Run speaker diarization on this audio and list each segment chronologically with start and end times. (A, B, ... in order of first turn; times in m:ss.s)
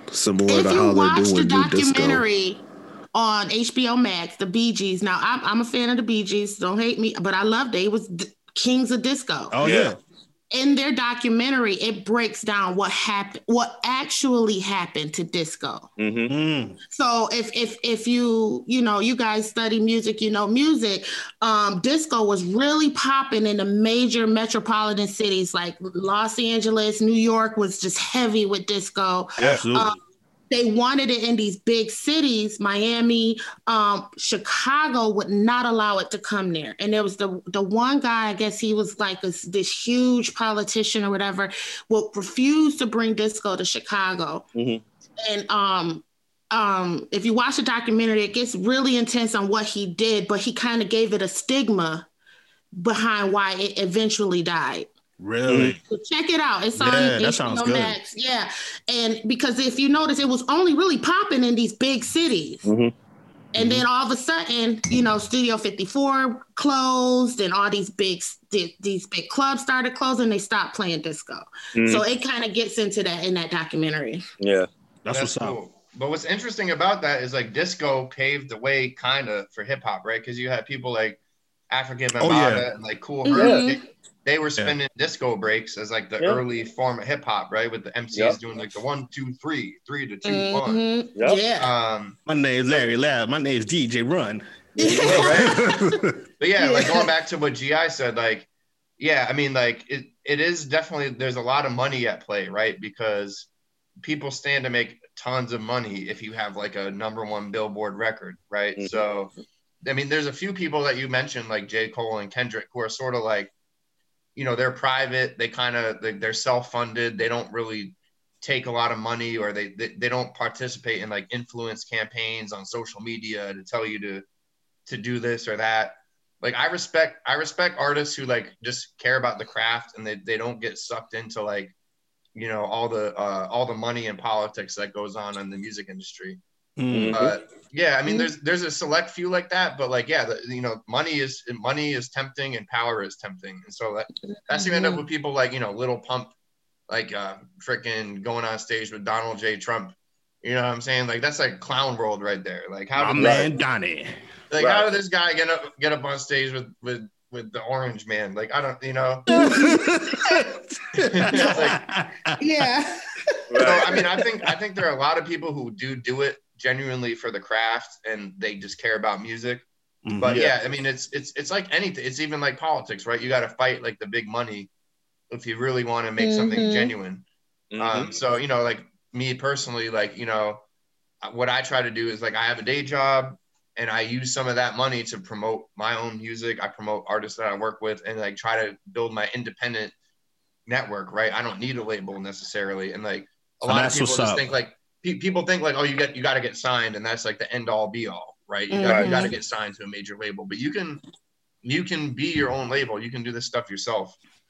0:00.1-0:02.2 A
0:00.5-0:02.6 B
0:03.1-0:09.6 B
0:09.5-0:10.0 C
0:09.6-0:10.0 D
0:10.5-0:15.9 B
0:16.0-0:16.3 D
0:16.3-0:16.8 C
0:16.9-0:30.0 B
0:29.4-0:29.6 D
0:29.4-0:30.0 C
0:30.5-0:44.5 B
0:44.6-0:44.8 D
0:45.2-0:52.1 B
0:52.8-0:54.9 B
0:55.2-0:55.8 C
0:55.5-0:55.8 D
0:55.8-1:02.7 B
0:56.8-0:58.0 C
1:02.6-1:02.9 D
1:03.6-1:14.3 B
1:03.6-1:03.9 C
1:11.8-1:12.0 D
1:14.4-1:14.7 D
1:15.0-1:15.6 C
1:15.1-1:30.8 E
1:22.2-1:22.7 C
1:23.2-1:23.8 B
1:23.4-1:23.7 D
1:28.1-1:28.4 D
1:30.2-1:31.7 B
1:31.2-1:31.4 D
1:31.6-1:32.2 E
1:32.3-1:34.4 C
1:34.8-1:35.3 D
1:34.8-1:36.0 B
1:35.0-1:35.6 E
1:35.0-1:36.0 C
1:36.4-1:38.5 E
1:36.6-1:37.1 B
1:39.0-1:43.5 E
1:44.0-1:49.3 E
1:48.8-1:49.1 D
1:49.8-1:53.5 E
1:54.4-2:04.2 E
2:04.9-2:11.7 E
2:12.4-2:16.4 E
2:16.8-2:17.2 C
2:16.9-2:17.4 D
2:17.1-2:26.3 E
2:24.5-2:25.1 B
2:26.9-2:33.5 E
2:33.0-2:34.2 C
2:33.2-2:33.5 D
2:34.5-2:39.3 E
2:34.6-2:34.9 D
2:39.3-2:42.7 C
2:39.3-2:40.4 B
2:41.0-2:41.8 E
2:42.4-2:44.0 B
2:43.5-2:43.9 D
2:43.6-2:49.7 E
2:50.0-2:50.5 C
2:50.2-2:54.7 E
2:50.3-2:50.6 D
2:55.3-2:57.2 E
2:56.2-2:56.9 B
2:57.7-2:58.2 D
2:57.8-3:00.6 E
3:01.2-3:09.9 E
3:10.7-3:21.0 E
3:13.6-3:14.4 C
3:18.7-3:19.4 B
3:18.8-3:19.2 D
3:21.6-3:24.2 E